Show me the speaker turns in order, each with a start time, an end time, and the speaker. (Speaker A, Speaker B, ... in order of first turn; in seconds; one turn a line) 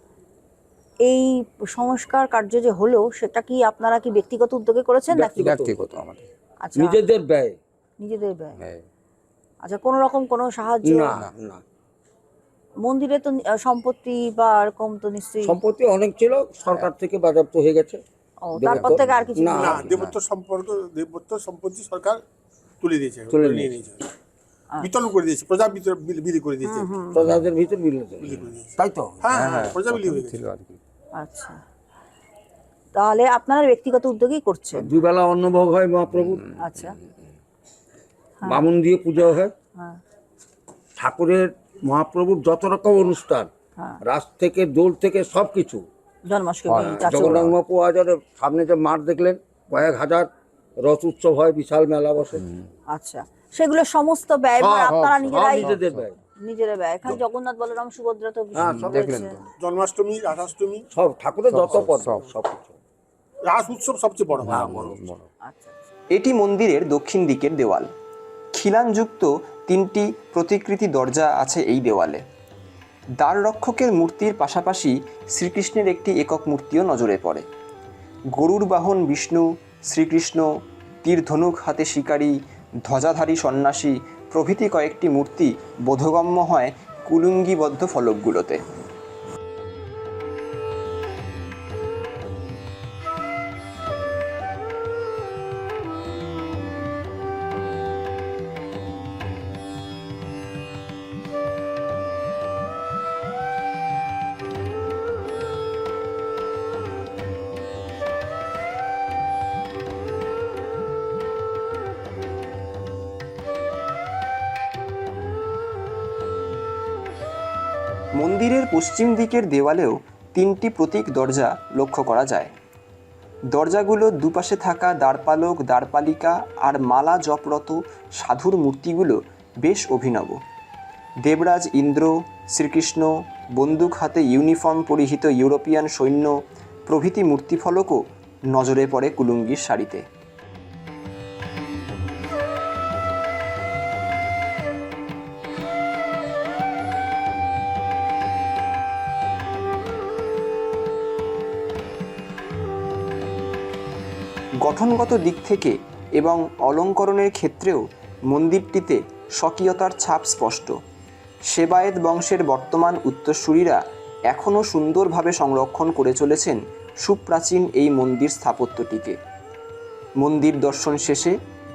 Speaker A: 1.1-5.5
Speaker B: 5.1-5.8
Speaker C: 5.3-6.3
Speaker A: 6.6-7.0
Speaker B: 6.8-7.6
Speaker A: 8.0-8.6
Speaker C: 8.6-8.8
Speaker A: 9.6-11.2
Speaker B: 10.8-11.6
Speaker A: 12.8-15.5
Speaker B: 15.4-18.0
Speaker A: 18.4-19.8
Speaker B: 18.6-19.9
Speaker C: 18.8-20.2
Speaker D: 19.5-22.2
Speaker D: 22.8-24.1
Speaker B: 23.3-23.8
Speaker D: 24.8-26.9
Speaker A: 26.6-27.2
Speaker B: 27.1-29.3
Speaker D: 28.2-30.4
Speaker C: 29.3-30.8
Speaker A: 31.1-31.6
Speaker A: 33.0-34.9
Speaker B: 34.7-36.4
Speaker C: 36.1-36.9
Speaker A: 36.6-37.0
Speaker B: 38.4-39.5
Speaker B: 41.0-43.5
Speaker B: 44.0-45.8
Speaker A: 46.3-47.4
Speaker C: 46.7-47.5
Speaker B: 46.7-50.3
Speaker B: 50.8-52.5
Speaker A: 52.9-55.7
Speaker B: 54.6-56.1
Speaker C: 55.0-56.1
Speaker A: 56.4-59.4
Speaker B: 58.5-59.3
Speaker C: 58.6-59.5
Speaker D: 59.6-60.9
Speaker B: 60.9-62.8
Speaker C: 61.5-62.3
Speaker D: 63.4-64.6
Speaker C: 64.4-65.3
Speaker B: 64.5-65.0
Speaker A: 65.4-65.8
Speaker E: 66.1-67.9
Speaker E: 68.5-72.2
Speaker E: 73.2-77.4
Speaker E: 78.3-80.5
Speaker E: 81.0-88.6
Speaker E: 118.2-122.5
Speaker E: 123.5-130.4
Speaker E: 131.2-136.3
Speaker E: 136.9-140.0
Speaker E: 154.6-160.7
Speaker E: 161.5-169.2
Speaker E: 170.2-171.3